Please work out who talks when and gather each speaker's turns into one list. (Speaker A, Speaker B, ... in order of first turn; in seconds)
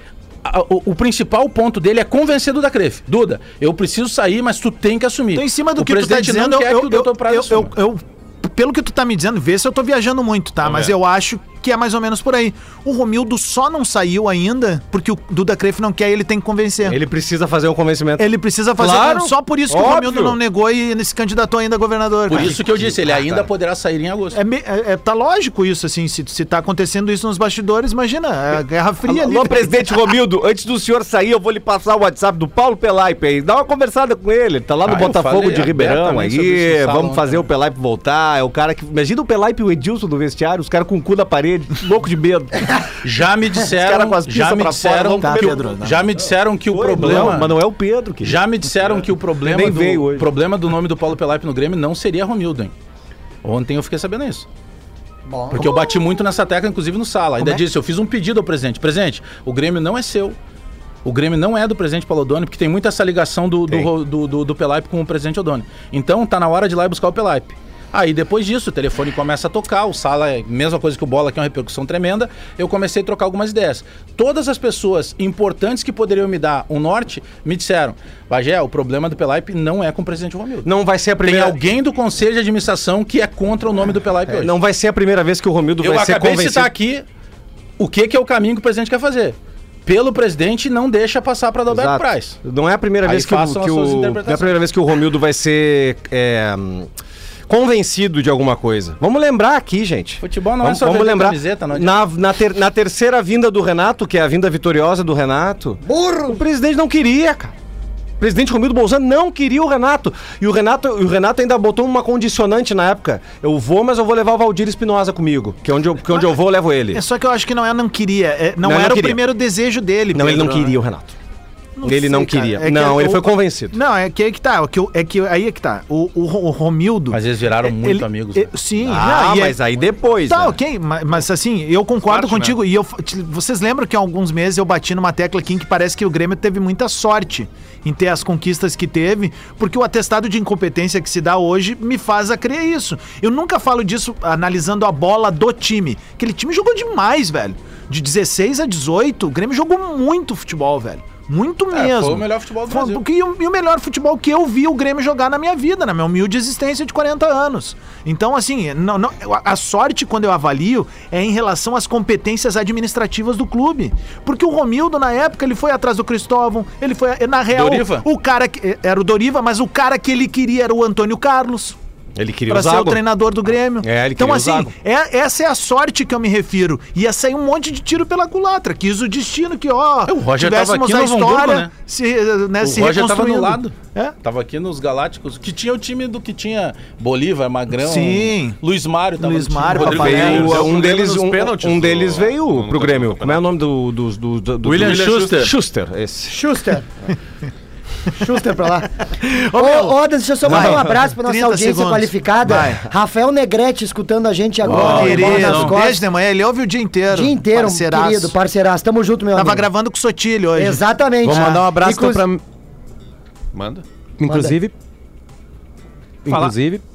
Speaker A: 0.4-7.7, 22.3-24.4, 34.8-37.4, 43.0-47.5, 48.2-52.7, 53.4-54.5, 55.5-60.4, 61.0-80.7, 81.2-84.5, 85.8-87.0, 87.8-92.3, 93.0-94.6, 100.2-102.0, 127.1-128.5, 151.7-153.0, 167.5-168.1, 180.1-181.7, 182.6-190.8, 194.6-195.5, 204.6-205.8
Speaker B: 5.3-17.0, 18.2-22.6, 24.3-29.7, 45.1-46.0, 47.0-47.4, 116.9-120.8, 121.8-129.6, 130.2-171.8, 172.5-184.1, 187.7-188.6, 189.2-190.7, 199.2-202.9, 204.6-208.3, 209.3-211.6
Speaker C: 10.6-10.9, 132.1-132.5, 190.0-193.4, 194.7-195.3, 213.5-213.8
Speaker D: 16.8-20.4, 22.3-23.5, 29.0-42.8, 43.6-45.6, 46.7-48.4, 49.4-50.3, 80.6-81.6, 84.3-86.7, 91.7-96.9, 97.5-107.5, 108.2-117.0, 118.6-119.2, 120.1-121.1, 121.8-123.8, 128.8-130.6, 172.2-173.0, 173.8-174.7, 189.8-196.3
Speaker E: 55.3-55.6, 105.8-106.4, 196.3-196.8, 198.2-199.0, 199.5-206.0, 207.1-209.7, 210.6-212.2, 214.2-214.6
Speaker F: 204.8-205.0, 211.2-212.4, 214.2-214.7, 216.2-216.8